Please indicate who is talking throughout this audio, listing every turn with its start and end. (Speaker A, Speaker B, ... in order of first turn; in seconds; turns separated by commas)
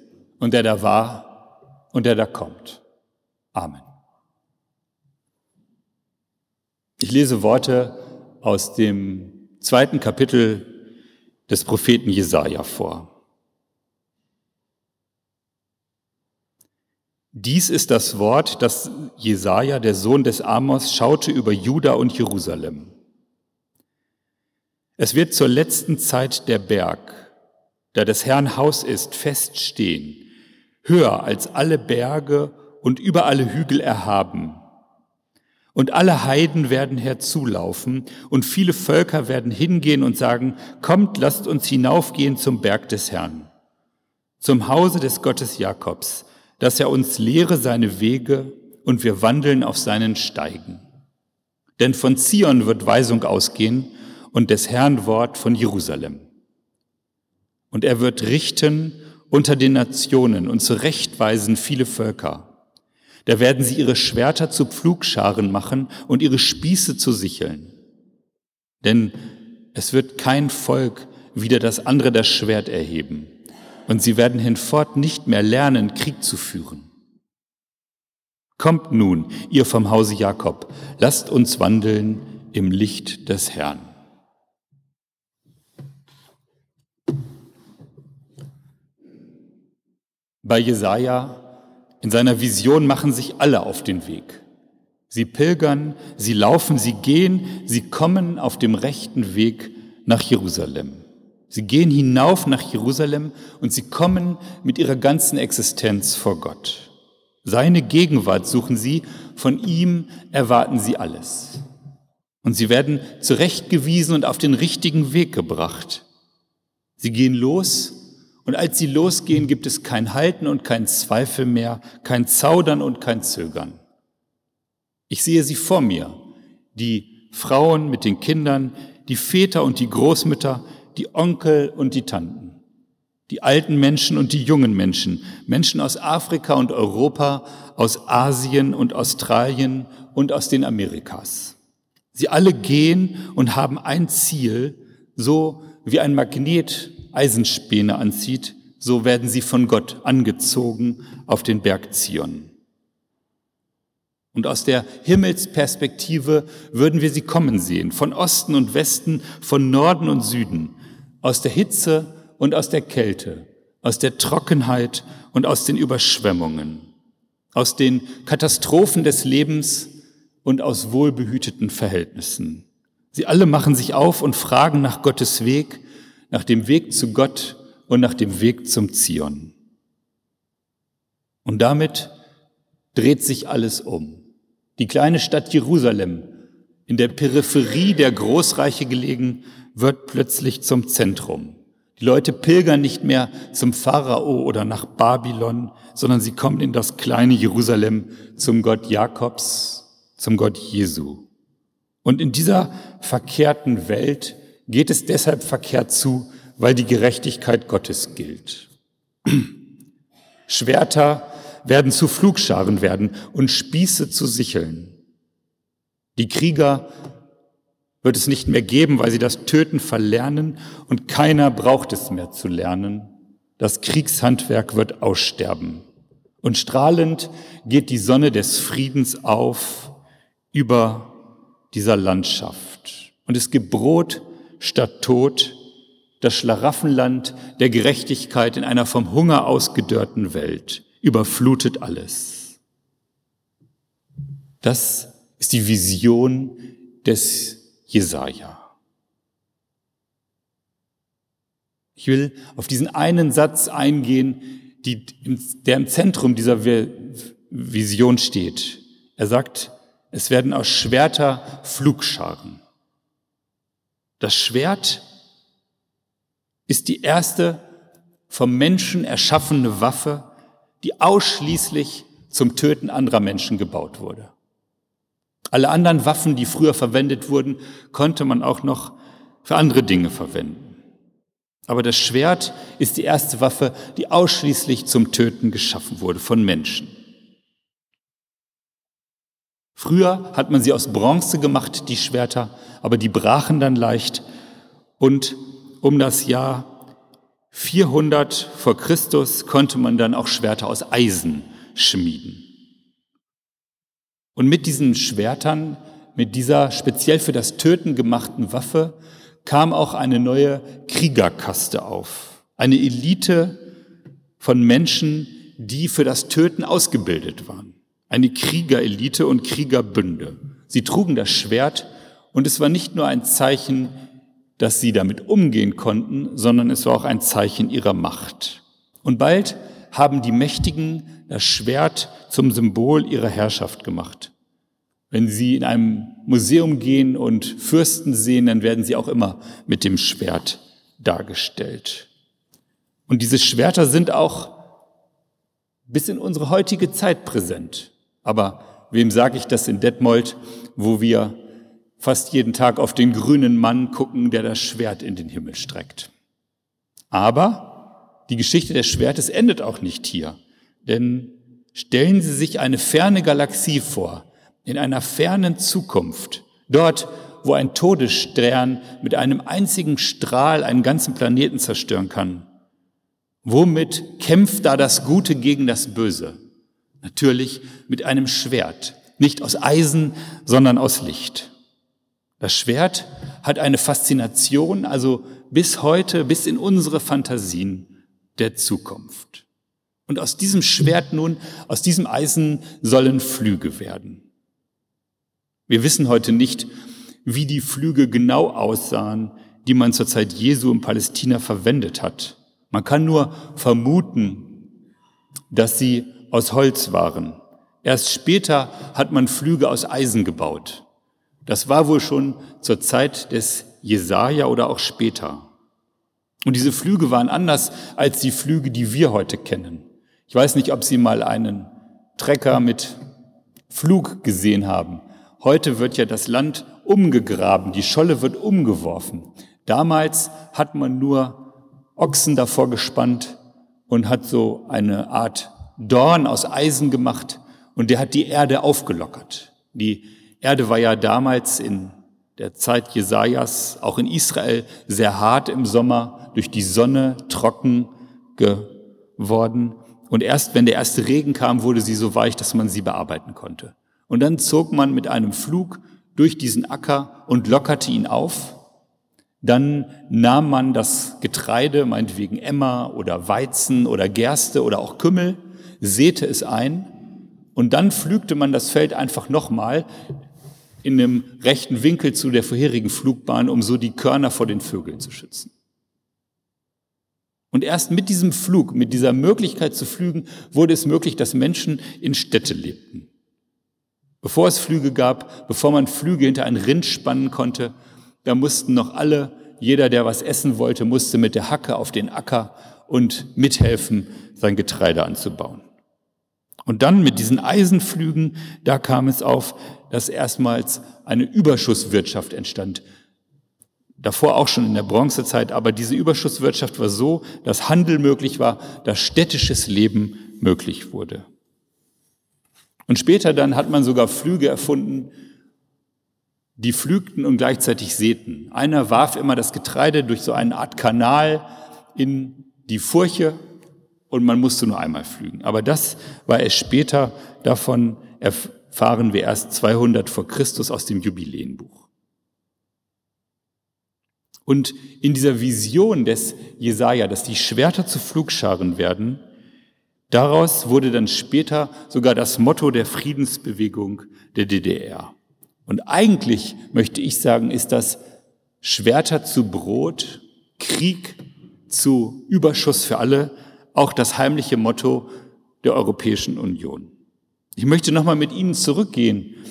Speaker A: 0.4-2.8, Speaker A: 3.5-3.9, Speaker A: 7.0-10.8, Speaker A: 11.5-13.1, Speaker A: 17.3-22.9, Speaker A: 25.0-27.3, Speaker A: 27.9-30.3, Speaker A: 30.8-34.6, Speaker A: 35.7-43.5, Speaker A: 44.4-50.8, Speaker A: 51.8-56.2, Speaker A: 57.7-62.5, Speaker A: 63.3-67.7, Speaker A: 68.8-69.2, Speaker A: 69.7-73.3, Speaker A: 73.9-76.9, Speaker A: 78.6-83.9, Speaker A: 90.4-91.5, Speaker A: 92.0-94.4, Speaker A: 95.1-106.9, Speaker A: 107.4-111.7, Speaker A: 112.4-116.0, Speaker A: 117.0-123.8, Speaker A: 125.1-126.2, Speaker A: 126.7-132.6, Speaker A: 133.3-141.6, Speaker A: 142.1-152.5, Speaker A: 154.3-166.9, Speaker A: 167.6-169.9, Speaker A: 170.4-179.5, Speaker A: 181.4-182.1, Speaker A: 182.9-184.2, Speaker A: 184.8-186.3, Speaker A: 186.9-201.3, Speaker A: 202.0-208.7, Speaker A: 209.2-209.5, Speaker A: 210.5-214.9, Speaker A: 216.2-216.9, Speaker A: 218.0-225.8, Speaker A: 226.4-229.9, Speaker A: 230.5-231.2, Speaker A: 231.7-235.6, Speaker A: 236.2-242.6, Speaker A: 244.6-248.7, Speaker A: 252.0-262.6, Speaker A: 264.2-265.1, Speaker A: 266.7-267.6, Speaker A: 268.3-270.3, Speaker A: 270.8-274.3, Speaker A: 275.5-280.8, Speaker A: 281.7-286.9, Speaker A: 289.8-294.2, Speaker A: 295.0-296.7, Speaker A: 297.5-302.5, Speaker A: 304.4-313.6, Speaker A: 314.4-324.0, Speaker A: 324.6-334.3, Speaker A: 335.1-342.1, Speaker A: 343.1-344.6, Speaker A: 345.9-351.4, Speaker A: 352.0-356.1, Speaker A: 357.1-372.5, Speaker A: 373.4-376.4, Speaker A: 377.0-381.5, Speaker A: 382.4-389.5, Speaker A: 390.1-394.2, Speaker A: 395.7-396.7, Speaker A: 397.2-404.6, Speaker A: 405.5-410.9, Speaker A: 411.5-415.5, Speaker A: 416.5-423.0, Speaker A: 423.7-433.4, Speaker A: 433.9-458.6, Speaker A: 459.4-466.9, Speaker A: 467.6-469.9, Speaker A: 470.8-475.5, Speaker A: 477.5-483.1, Speaker A: 484.2-487.7, Speaker A: 488.2-495.6, Speaker A: 496.7-502.8, Speaker A: 504.0-511.3, Speaker A: 512.9-515.1, Speaker A: 516.6-523.4, Speaker A: 524.1-531.9, Speaker A: 534.5-539.2, Speaker A: 540.1-545.1, Speaker A: 545.7-548.0, Speaker A: 548.6-555.1, Speaker A: 555.6-556.9, Speaker A: 557.6-559.4